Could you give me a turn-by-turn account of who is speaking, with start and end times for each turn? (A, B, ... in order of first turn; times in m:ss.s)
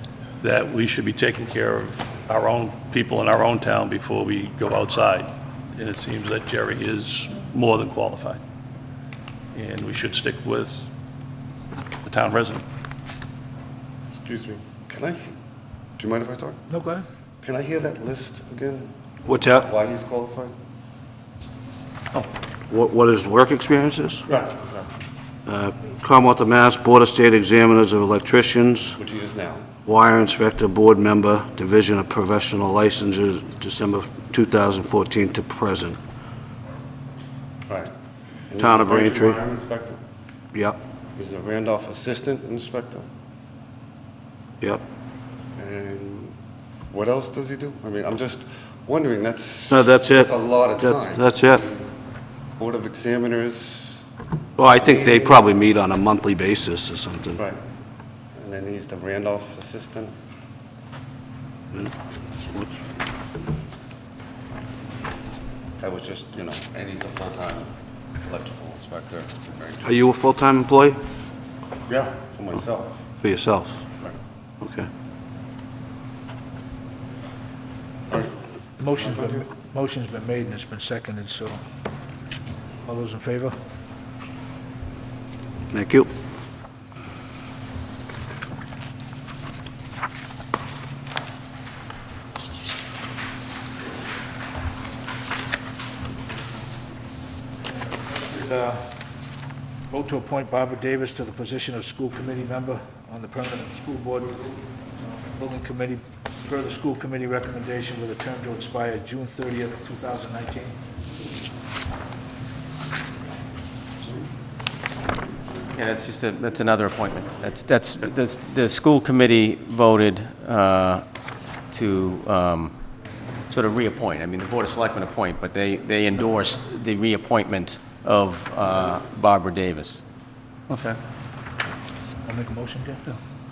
0:00.4-0:08.4 A
0:09.5-0:10.9 A
0:12.0-0:12.6 A
0:14.1-0:15.3 B
0:16.0-0:16.6 B
0:16.7-0:17.0 C
0:17.4-0:18.9 B
0:19.3-0:19.7 D
0:19.6-0:20.5 B
0:22.7-0:24.2 D
0:24.3-0:24.9 B
0:25.5-0:29.0 D
0:29.0-0:29.7 B
0:29.8-0:36.0 D
0:38.5-0:40.0 B
0:38.6-0:39.4 D
0:41.2-0:43.0 B
0:45.6-0:46.4 B
0:46.9-0:51.9 B
0:49.7-0:51.6 D
0:52.6-0:54.0 B
0:54.6-0:57.4 D
0:54.6-0:55.5 B
0:58.4-1:00.1 B
1:05.8-1:07.7 B
1:08.2-1:09.9 B
1:09.8-1:11.0 D
1:11.9-1:13.0 B
1:13.2-1:13.8 D
1:14.6-1:14.9 D
1:18.8-1:21.6 C
1:19.0-1:19.4 B
1:22.8-1:23.6 C
1:25.7-1:26.1 D
1:37.7-1:38.9 C
1:39.9-1:50.8 C
1:55.7-2:01.0 E
2:01.7-2:02.8 E
2:03.5-2:10.0 E
2:10.7-2:11.0 A
2:12.3-2:13.2 C